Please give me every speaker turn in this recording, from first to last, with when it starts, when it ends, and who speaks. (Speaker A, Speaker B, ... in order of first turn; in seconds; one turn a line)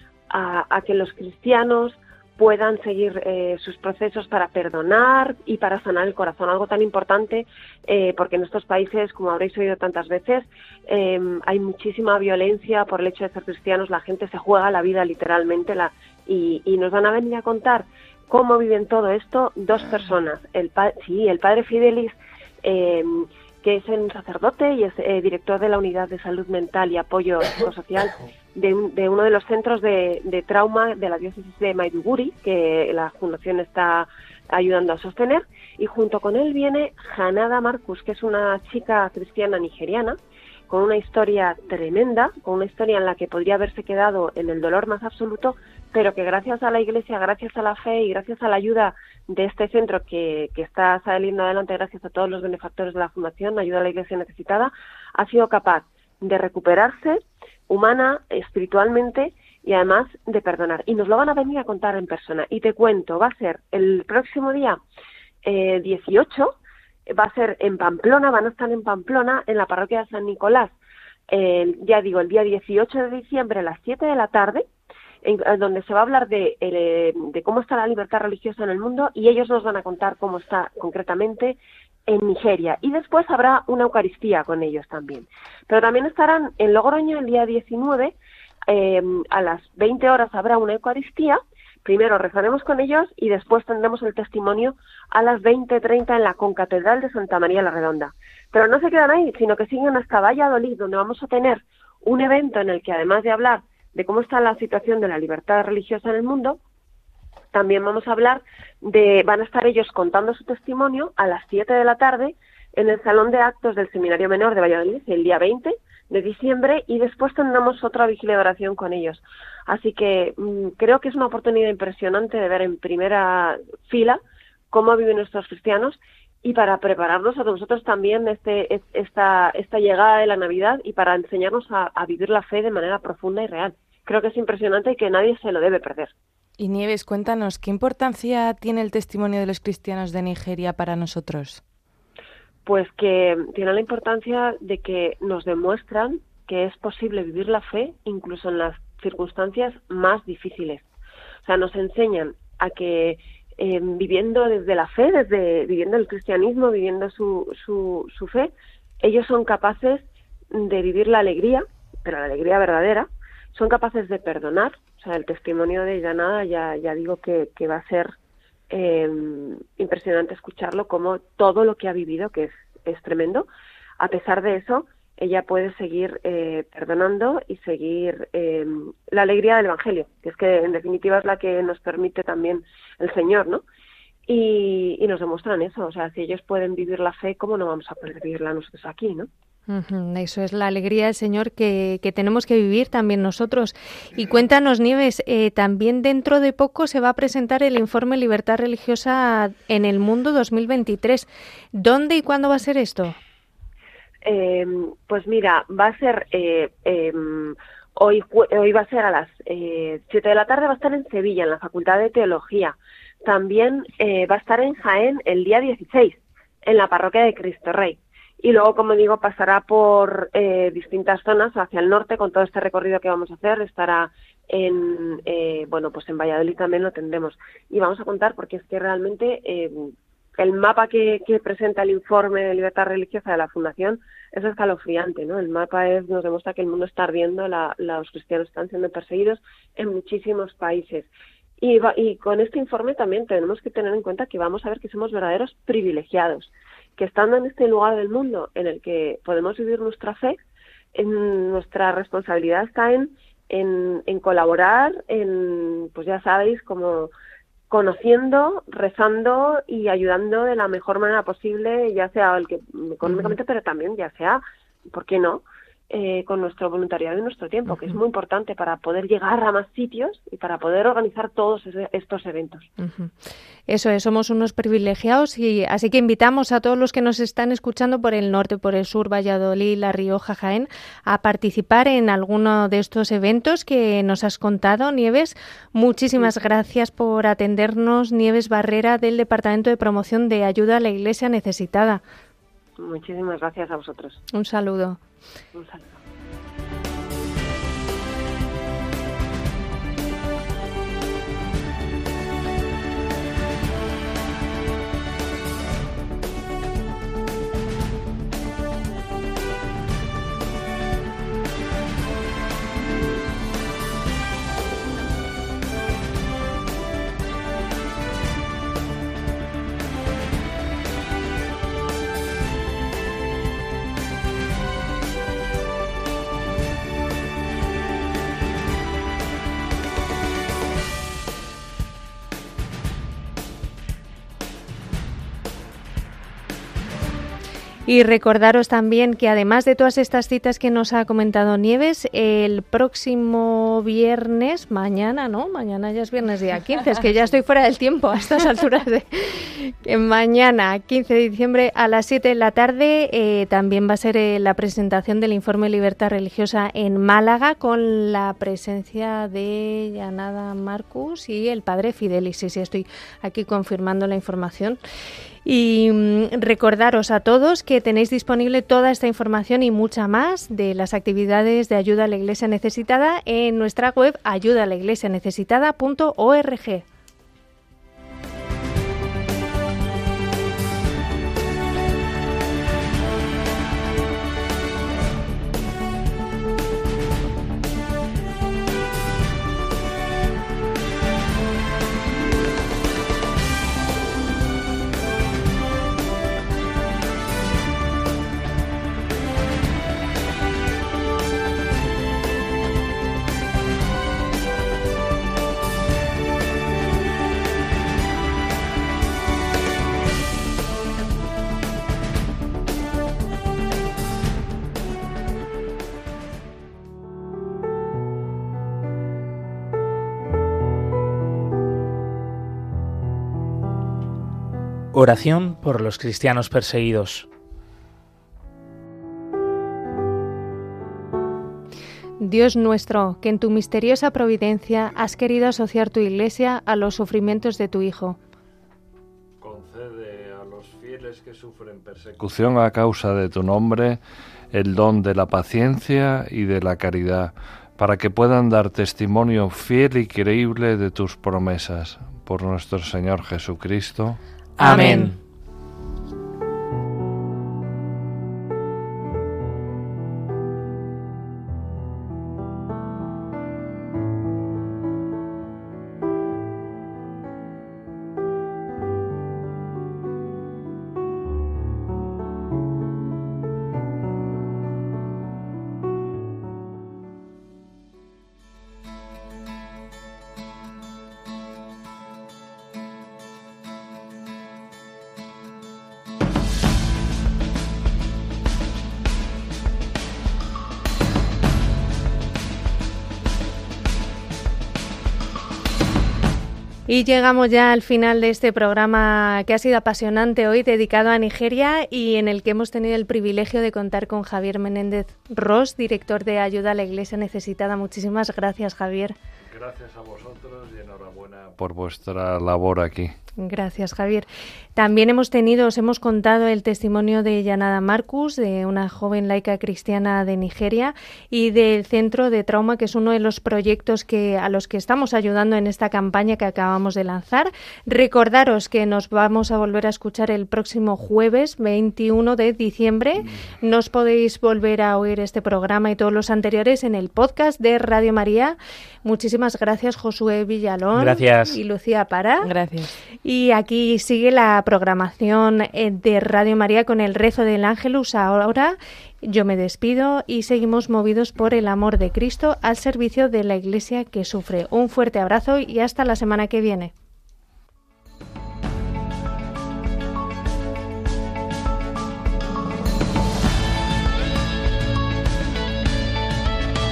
Speaker A: 0.3-40.2
Speaker A: 40.7-64.8
Speaker A: 65.4-66.6
Speaker A: 67.1-70.7
Speaker A: 71.3-74.7
Speaker A: 75.2-88.2
Speaker A: 88.7-106.6
Speaker A: 107.5-124.2
Speaker A: 124.7-136.1
Speaker B: 136.6-141.6
Speaker A: 142.7-150.8
Speaker A: 151.4-168.2
Speaker A: 168.7-173.5
Speaker A: 174.0-183.6
Speaker A: 184.3-189.3
Speaker C: 189.7-203.2
Speaker A: 204.2-241.1
Speaker A: 241.6-250.4
Speaker A: 250.9-257.1
Speaker A: 257.7-264.4
Speaker A: 264.9-272.7
Speaker C: 272.8-273.1
Speaker C: 273.7-292.0
Speaker A: 292.8-294.2
Speaker C: 294.3-295.0
Speaker A: 295.5-295.9
Speaker C: 337.9-364.8
Speaker C: 365.4-376.9
Speaker D: 424.9-427.3
Speaker C: 432.2-438.2
Speaker E: 439.4-444.0
Speaker E: 444.5-454.2
Speaker D: 454.6-455.2
Speaker C: 454.6-455.1
Speaker B: 454.6-455.1
Speaker C: 496.9-509.1
Speaker E: 509.5-513.1
Speaker C: 513.4-542.5
Speaker D: 541.0-541.6
Speaker B: 542.4-542.9
Speaker C: 543.2-556.9